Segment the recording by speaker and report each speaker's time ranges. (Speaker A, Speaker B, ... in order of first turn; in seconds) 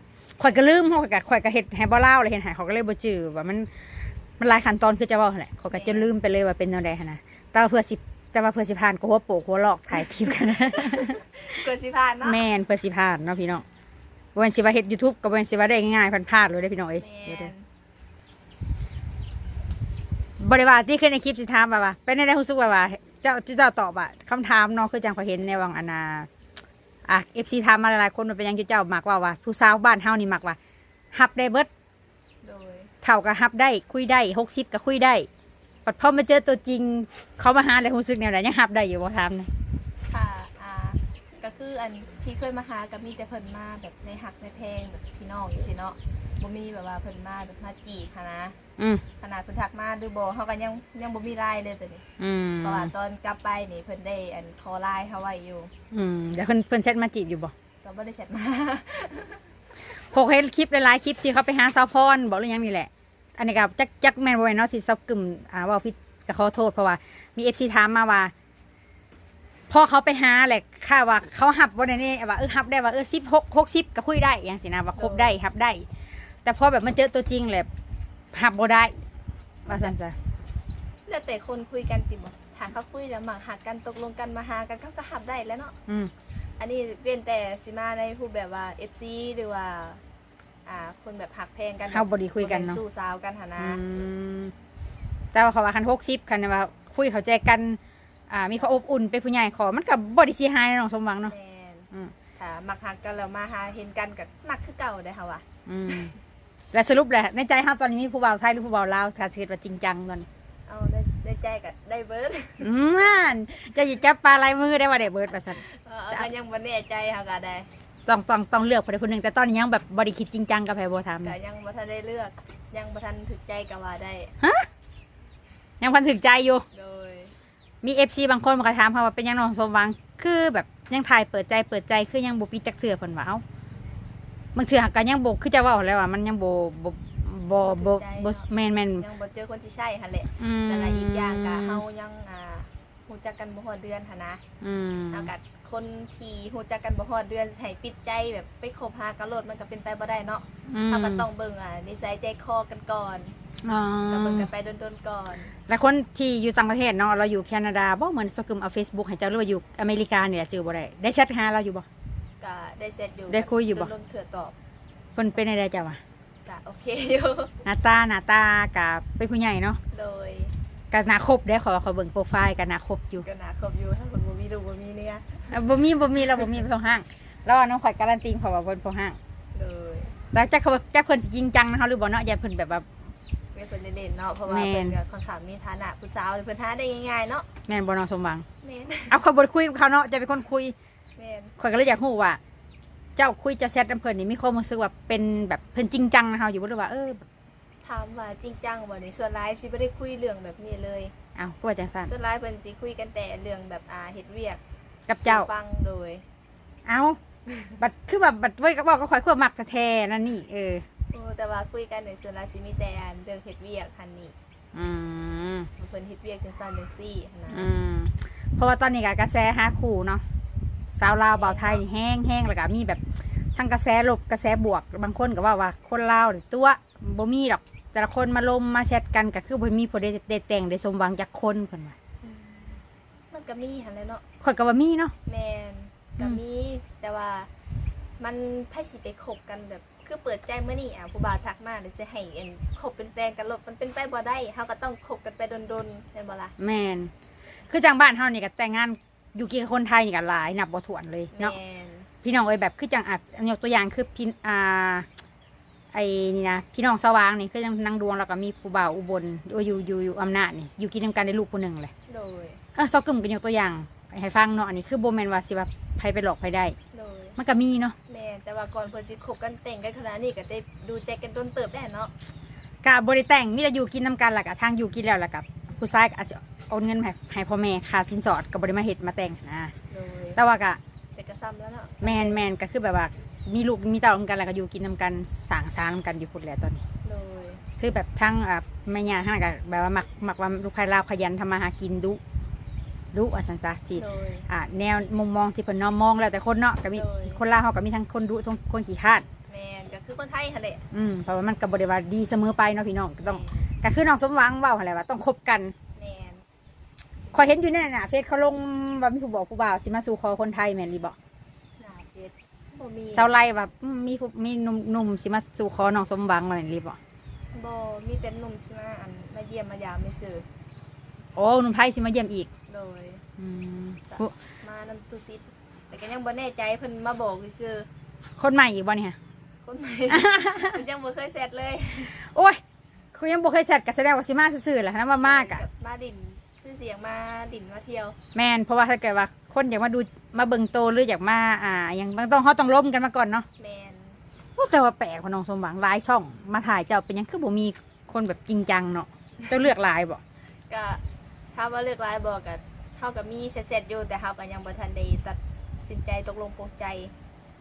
Speaker A: 0.4-3.7, 4.4-11.2, 12.2-13.6, 14.3-17.5, 20.4-26.3, 27.1-30.6, 31.1-31.7, 33.0-35.3, 35.9-39.5, 48.8-49.0, 52.2-52.9, 55.9-57.5, 60.0-68.3, 69.7-75.9, 76.4-77.7, 78.3-79.0, 79.7-80.2, 91.9-92.8, 93.6-94.5, 95.3-97.8, 98.3-101.3, 105.7-106.1, 106.7-110.3, 112.6-116.3, 118.0-121.3, 124.4-124.7, 125.8-126.6, 127.8-133.4, 134.5-139.0, 140.4-141.8, 144.6-145.3, 150.7-151.2, 153.6-154.5, 155.7-161.9, 163.3-163.9, 165.2-166.0, 167.6-169.8, 170.9-173.2, 175.5-179.2, 180.3-182.8, 184.5-184.9, 187.7-188.4, 189.1-190.8, 191.6-192.4, 193.2-197.2, 201.4-202.1, 205.1-205.5, 206.9-207.2, 207.8-210.8, 214.7-215.7, 217.5-220.2, 221.0-223.0, 223.6-231.9, 234.4-235.1, 246.6-247.1, 247.7-251.5, 252.2-255.1, 255.9-261.9, 262.8-266.8, 267.4-267.9, 272.8-279.7, 280.4-280.8, 282.0-286.8, 287.8-292.2, 293.1-299.2, 300.9-305.7, 307.3-311.1, 313.1-317.0, 321.4-322.5, 323.4-324.3, 328.4-329.1, 330.1-330.8, 332.1-332.6, 333.1-335.6, 338.3-343.4, 344.6-350.2
Speaker B: 5.7-6.1, 9.9-12.4, 17.0-17.6, 32.4-32.9, 40.1-48.5, 49.2-52.0, 52.6-55.7, 57.8-59.4, 75.0-75.4, 79.7-79.9, 81.0-85.8, 86.6-90.0, 90.7-93.8, 101.3-105.4, 110.7-112.7, 115.5-117.7, 121.2-124.3, 126.7-127.3, 137.6-138.5, 139.0-144.4, 145.1-153.3, 154.1-155.5, 162.4-164.5, 166.4-167.5, 169.9-170.5, 173.2-175.6, 179.5-180.1, 183.5-187.5, 188.6-189.2, 191.2-191.6, 197.8-201.1, 202.0-204.6, 205.2-206.2, 207.5-207.8, 211.1-214.3, 215.8-217.7, 221.3-221.8, 232.2-234.2, 235.2-237.5, 238.2-246.5, 251.3-252.1, 262.1-262.6, 266.9-267.4, 268.1-272.1, 279.9-280.4, 281.1-282.5, 287.0-287.6, 293.9-294.4, 296.9-297.4, 299.5-300.9, 303.2-303.7, 305.9-306.4, 307.3-307.5, 311.8-313.3, 317.5-320.4, 322.7-323.2, 324.1-327.9, 329.6-332.1, 335.2-338.1, 343.6-344.2, 350.7-351.0, 351.5-357.1